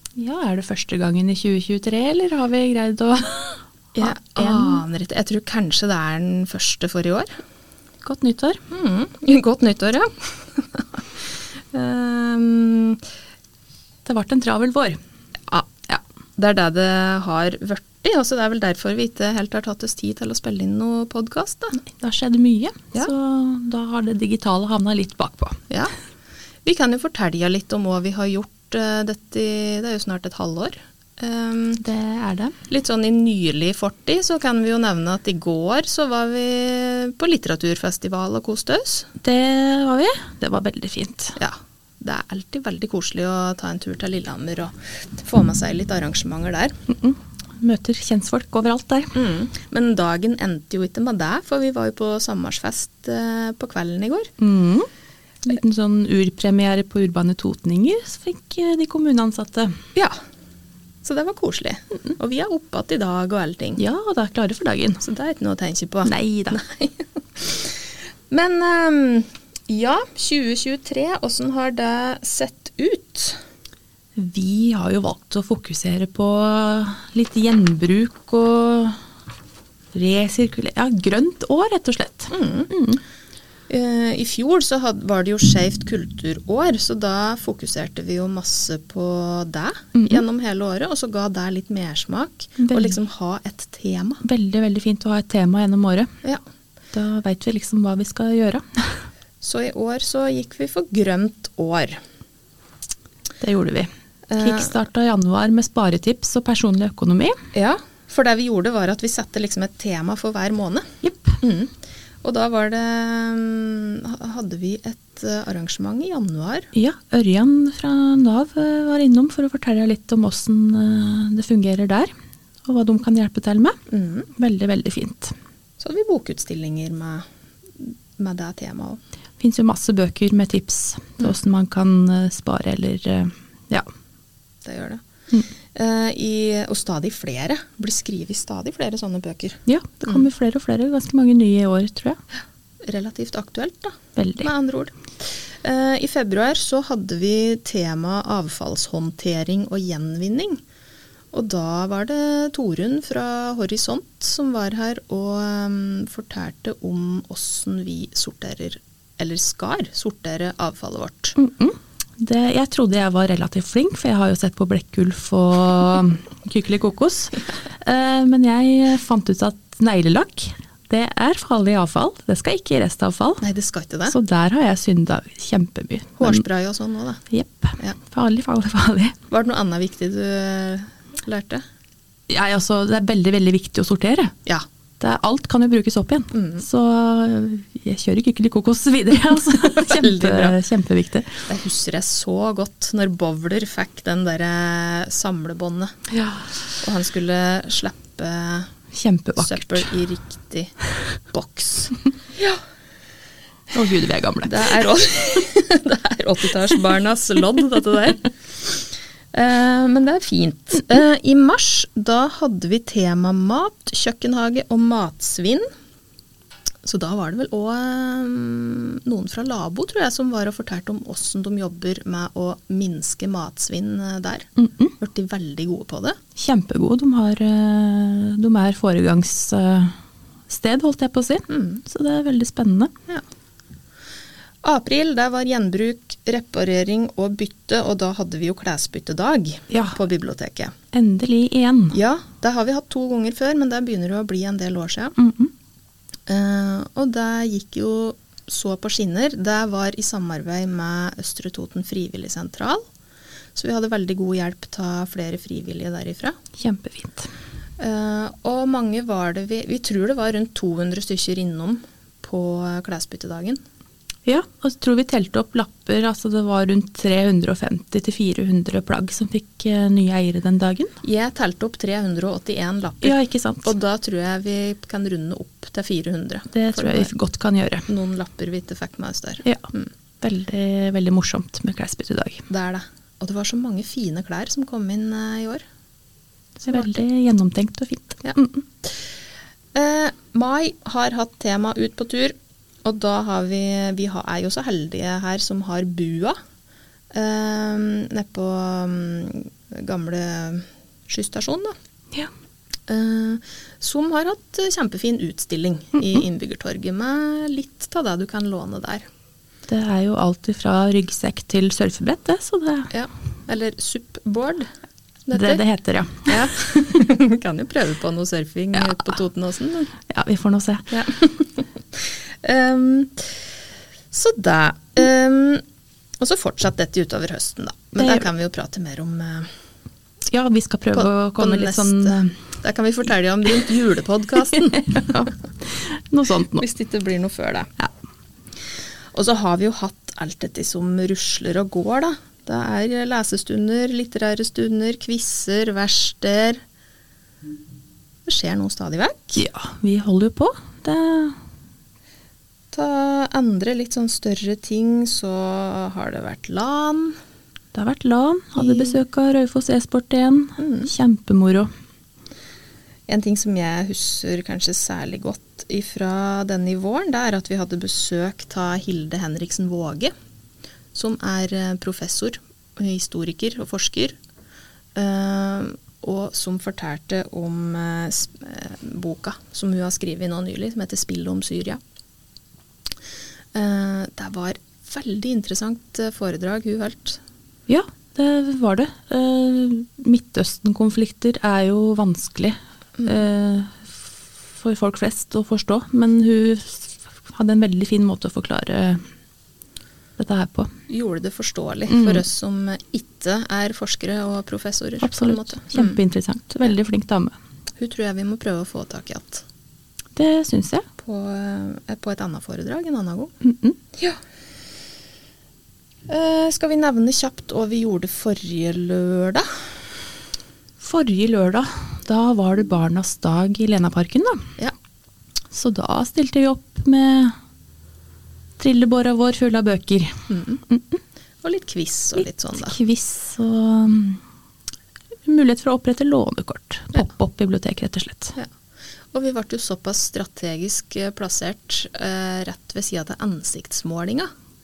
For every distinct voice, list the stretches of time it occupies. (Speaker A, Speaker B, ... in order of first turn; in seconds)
Speaker A: 0.2-4.8, 8.0-8.6, 14.1-15.0, 21.8-25.6, 31.8-32.5, 39.2-41.4, 46.9-49.1, 54.4-54.9, 55.4-59.7, 63.8-65.0, 66.0-66.6, 74.2-79.0, 79.9-83.0, 90.0-90.2, 92.6-92.9, 94.2-96.1, 96.9-99.0, 103.4-107.4, 111.0-111.4, 116.8-122.1, 122.7-123.8, 124.4-125.3, 129.4-133.9, 139.7-142.2, 144.2-144.5, 161.4-173.4, 174.1-176.4, 177.3-179.2, 182.3-184.3, 185.0-191.3, 196.2-196.5, 198.9-199.8, 203.7-204.7, 224.6-224.9, 226.4-229.9, 230.5-232.9, 240.9-242.0, 245.2-245.5, 256.6-257.3, 264.3-270.9, 273.0-273.7, 276.5-277.9, 280.2-282.4, 286.6-288.7, 309.7-312.9, 315.3-316.3, 320.1-320.9, 328.0-328.3, 330.3-332.4, 334.6-336.6, 349.4-351.4, 357.7-361.7, 387.7-394.0, 394.6-399.0, 400.2-400.7, 401.9-402.2, 405.0-407.3, 410.2-410.8, 413.4-413.8, 420.8-424.4, 425.5-427.4, 428.6-430.1, 430.7-431.0, 432.6-434.2, 435.3-438.3
Speaker B: 4.0-7.3, 8.7-11.0, 11.7-13.0, 16.4-21.8, 26.6-31.8, 32.7-39.1, 41.4-46.8, 49.1-54.3, 61.0-63.8, 65.0-67.8, 68.3-73.4, 82.3-82.7, 83.7-94.2, 99.4-102.0, 104.3-104.7, 107.5-110.9, 111.4-111.7, 112.2-116.7, 123.9-124.3, 125.8-127.2, 127.8-129.0, 134.6-135.0, 135.8-139.6, 142.8-150.6, 151.3-161.4, 173.4-174.2, 176.2-177.2, 179.3-181.6, 186.3-186.7, 189.6-190.6, 191.4-195.9, 196.8-198.7, 199.4-200.7, 201.3-202.6, 204.4-215.7, 216.8-226.2, 231.5-231.8, 234.6-240.7, 241.9-245.2, 246.3-252.8, 253.6-256.4, 257.8-263.6, 271.0-277.1, 277.9-279.9, 282.5-285.6, 286.7-286.9, 289.8-296.4, 297.1-301.7, 302.9-309.1, 312.9-314.7, 315.3-315.6, 316.2-319.9, 320.9-323.3, 324.1-325.6, 326.2-329.5, 330.9-335.3, 336.5-337.7, 339.1-346.6, 348.3-349.4, 352.7-357.2, 358.6-359.0, 360.6-360.9, 363.1-370.1, 370.9-374.2, 375.0-381.8, 383.6-387.2, 393.0-393.2, 400.9-406.0, 407.8-409.4, 411.0-413.3, 416.1-419.5, 430.3-430.6, 431.4-432.8, 439.1-444.3